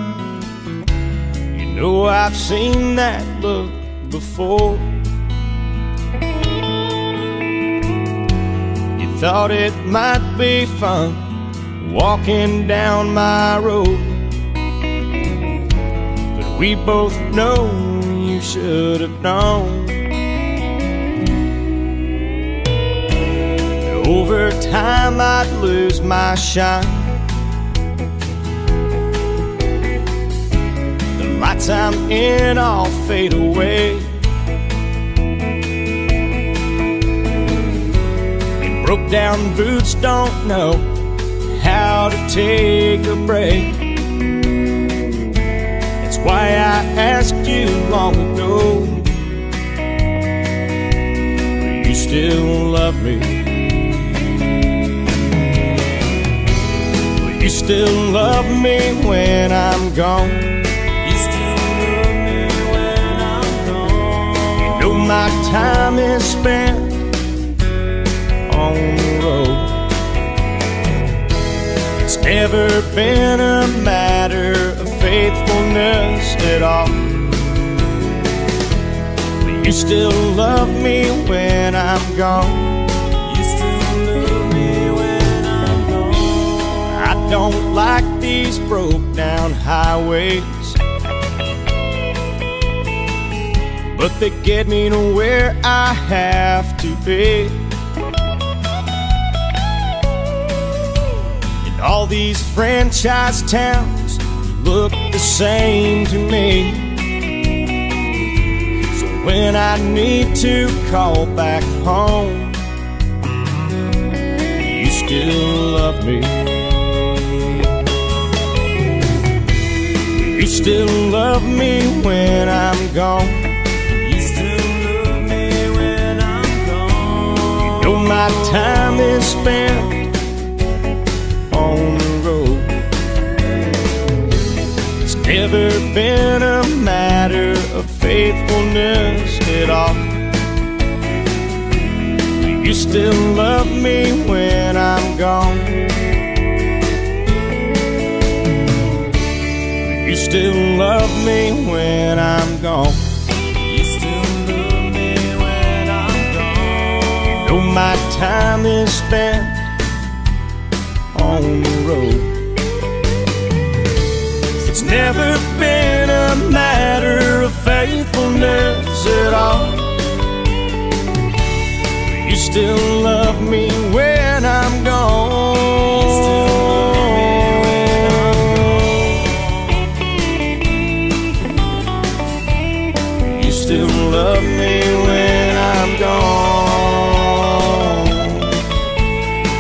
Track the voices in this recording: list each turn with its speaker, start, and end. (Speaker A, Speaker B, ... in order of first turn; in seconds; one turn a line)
Speaker A: 1.5-5.0
Speaker A: 8.9-14.4
Speaker A: 16.3-20.1
Speaker A: 23.7-27.2
Speaker A: 31.1-34.2
Speaker A: 38.6-43.9
Speaker A: 46.0-49.2
Speaker A: 51.5-53.8
Speaker A: 57.1-60.7
Speaker B: 61.1-64.3
Speaker A: 64.3-67.2
Speaker A: 68.5-69.8
Speaker A: 72.0-77.2
Speaker A: 79.4-82.9
Speaker B: 83.3-86.5
Speaker A: 86.5-90.8
Speaker A: 93.9-97.7
Speaker A: 101.6-107.2
Speaker A: 108.9-112.6
Speaker A: 114.5-116.7
Speaker A: 117.4-117.7
Speaker A: 120.0-123.6
Speaker B: 124.0-127.4
Speaker A: 127.3-130.2
Speaker A: 131.5-132.8
Speaker A: 135.0-140.2
Speaker A: 142.3-146.0
Speaker A: 149.8-153.2
Speaker B: 153.7-157.0
Speaker A: 157.0-159.7
Speaker A: 161.1-162.4
Speaker A: 164.5-170.0
Speaker A: 172.0-179.5
Speaker A: 183.2-188.7